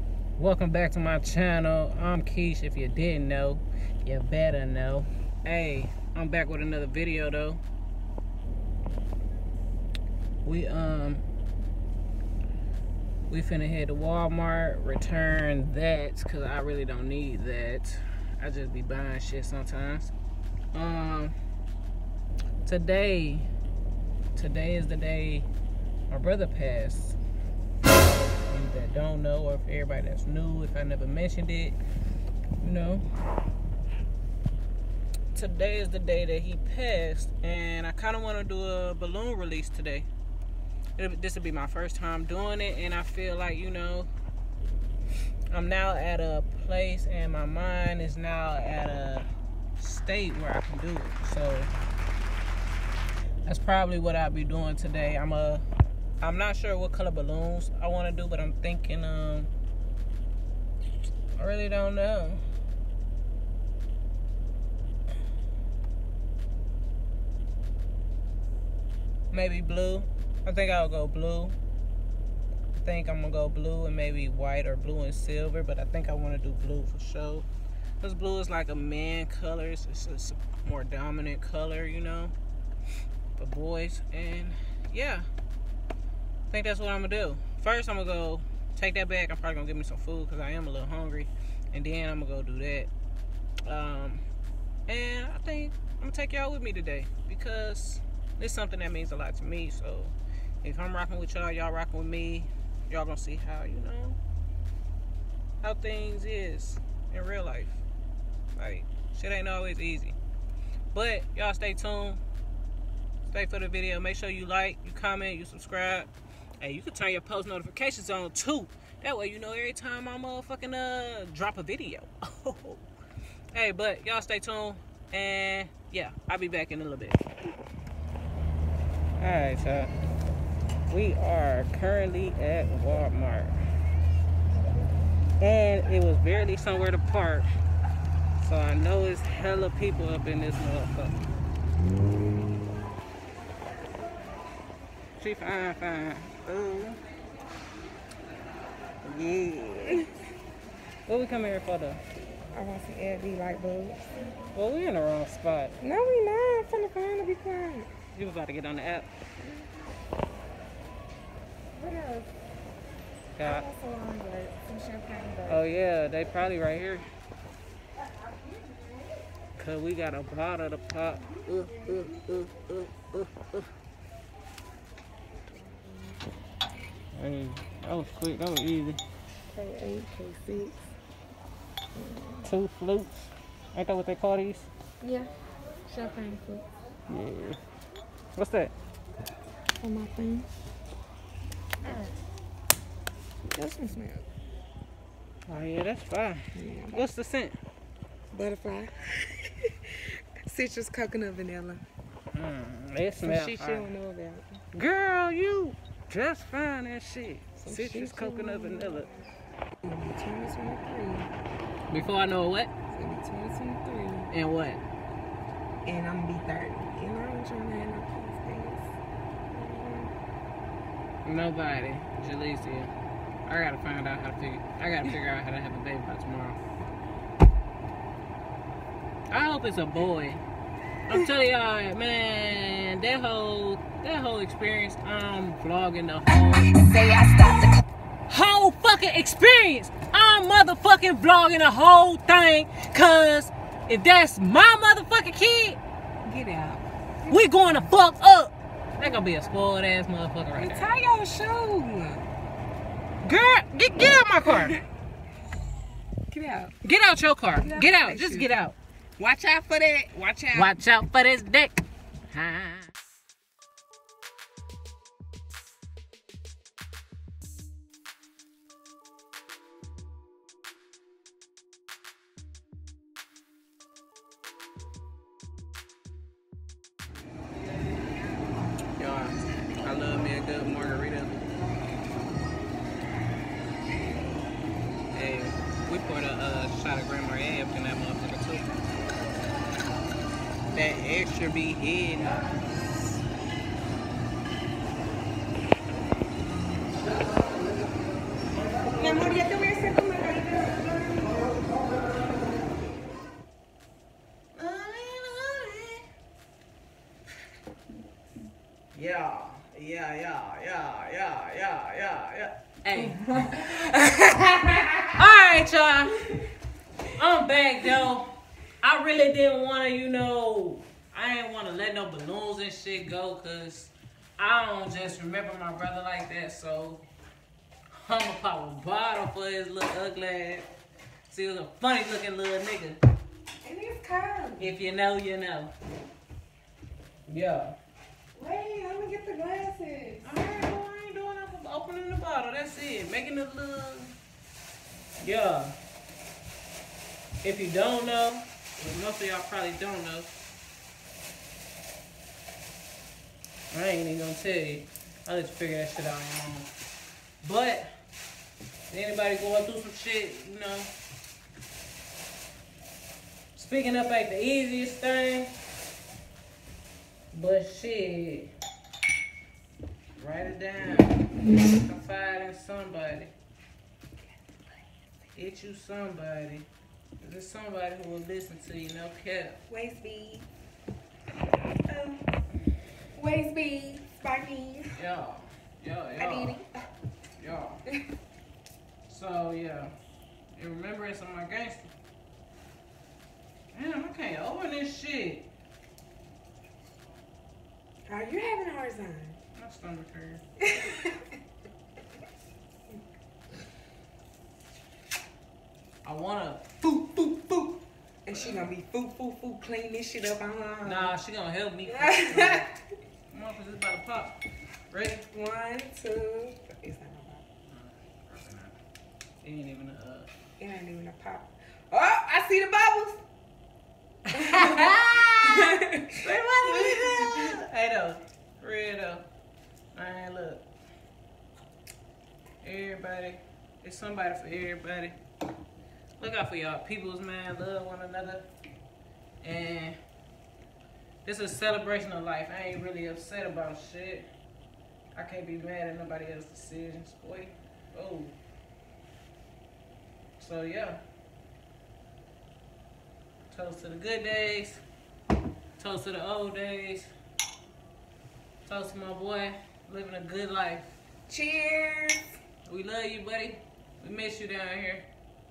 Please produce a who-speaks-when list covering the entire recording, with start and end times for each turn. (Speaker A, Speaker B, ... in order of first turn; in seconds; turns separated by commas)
Speaker A: 0.4-7.6, Speaker A: 10.4-11.2, Speaker A: 13.3-20.1, Speaker A: 20.7-21.4, Speaker A: 22.6-23.5, Speaker A: 24.3-25.5, Speaker A: 26.1-27.2, Speaker A: 28.5-31.8, Speaker A: 32.6-33.0, Speaker A: 35.3-40.1, Speaker A: 41.0-44.1, Speaker A: 45.5-51.7, Speaker A: 53.5-55.6, Speaker A: 56.2-59.5, Speaker A: 61.4-62.4, Speaker A: 69.3-71.5, Speaker A: 72.8-77.5, Speaker A: 78.0-82.3, Speaker A: 83.3-85.2, Speaker A: 86.5-92.9, Speaker A: 93.7-94.2, Speaker A: 94.9-104.2, Speaker A: 105.6-107.8, Speaker A: 108.5-110.2, Speaker A: 110.9-112.2, Speaker A: 113.3-116.1, Speaker A: 116.6-122.8, Speaker A: 123.5-127.2, Speaker A: 129.2-129.9, Speaker A: 130.9-133.6, Speaker A: 135.4-137.5, Speaker A: 138.4-141.2, Speaker A: 145.2-147.0, Speaker A: 149.0-150.1, Speaker A: 151.1-152.0, Speaker B: 152.5-154.2, Speaker A: 154.5-155.8, Speaker B: 155.8-157.9, Speaker A: 158.1-159.1, Speaker B: 161.7-162.3, Speaker A: 163.4-163.7, Speaker B: 163.4-165.7, Speaker A: 165.5-167.0, Speaker A: 169.6-173.7, Speaker B: 175.5-176.2, Speaker A: 177.1-179.0, Speaker B: 179.5-180.8, Speaker B: 181.9-182.5, Speaker A: 182.4-184.7, Speaker B: 185.0-185.3, Speaker B: 185.9-186.7, Speaker A: 187.1-187.6, Speaker A: 188.3-188.7, Speaker B: 189.8-190.5, Speaker B: 193.5-194.3, Speaker A: 195.5-197.6, Speaker B: 196.5-197.0, Speaker B: 198.3-201.8, Speaker A: 202.3-203.9, Speaker B: 203.2-204.6, Speaker A: 204.7-209.1, Speaker B: 207.6-209.2, Speaker B: 209.8-211.3, Speaker A: 211.9-212.7, Speaker B: 212.9-214.3, Speaker A: 214.3-214.8, Speaker B: 215.8-218.9, Speaker B: 219.5-220.1, Speaker A: 221.2-222.9, Speaker A: 223.4-226.6, Speaker A: 229.3-230.4, Speaker A: 231.1-236.7, Speaker B: 236.5-237.8, Speaker A: 238.3-245.8, Speaker B: 246.2-247.9, Speaker A: 247.3-250.9, Speaker B: 250.6-252.3, Speaker A: 253.2-254.8, Speaker B: 254.4-254.8, Speaker B: 256.3-256.7, Speaker A: 256.8-258.8, Speaker B: 257.6-258.5, Speaker B: 259.2-260.8, Speaker A: 260.5-262.9, Speaker A: 279.0-281.4, Speaker A: 285.1-288.7, Speaker A: 290.7-292.6, Speaker B: 298.9-301.6, Speaker A: 304.5-306.0, Speaker A: 308.9-313.7, Speaker B: 313.0-315.2, Speaker A: 315.1-316.3, Speaker A: 317.1-327.0, Speaker A: 327.9-330.7, Speaker A: 331.3-333.0, Speaker B: 333.6-334.7, Speaker A: 334.6-335.7, Speaker A: 337.3-337.8, Speaker B: 338.3-340.3, Speaker A: 340.2-344.1, Speaker A: 345.2-345.8, Speaker A: 347.4-350.3, Speaker A: 353.7-356.7, Speaker A: 357.4-357.9, Speaker A: 358.9-360.9, Speaker A: 363.5-365.5, Speaker A: 367.3-368.5, Speaker A: 370.2-373.3, Speaker A: 375.3-376.7, Speaker A: 377.2-379.6, Speaker B: 379.7-380.5, Speaker B: 381.9-382.3, Speaker B: 383.1-385.0, Speaker A: 384.9-386.6, Speaker B: 386.1-386.7, Speaker A: 387.4-387.8, Speaker A: 389.1-389.9, Speaker A: 390.5-391.9, Speaker A: 393.7-395.5, Speaker B: 398.1-399.4, Speaker A: 399.5-400.4, Speaker B: 400.6-401.2, Speaker A: 406.0-407.7, Speaker B: 408.2-411.1, Speaker A: 408.3-408.7, Speaker A: 410.8-412.7, Speaker B: 411.9-412.8, Speaker A: 413.3-415.3, Speaker B: 415.3-417.4, Speaker A: 417.7-418.8, Speaker A: 419.4-420.3, Speaker B: 420.6-423.2, Speaker A: 424.3-429.2, Speaker B: 424.3-427.6, Speaker A: 429.9-430.6, Speaker A: 432.6-435.1, Speaker A: 436.2-438.5, Speaker A: 439.4-440.0, Speaker A: 441.2-444.3, Speaker A: 445.1-448.3, Speaker A: 450.4-451.0, Speaker A: 453.5-454.8, Speaker A: 455.8-457.1, Speaker A: 458.6-461.0, Speaker B: 461.3-462.2, Speaker A: 462.6-465.1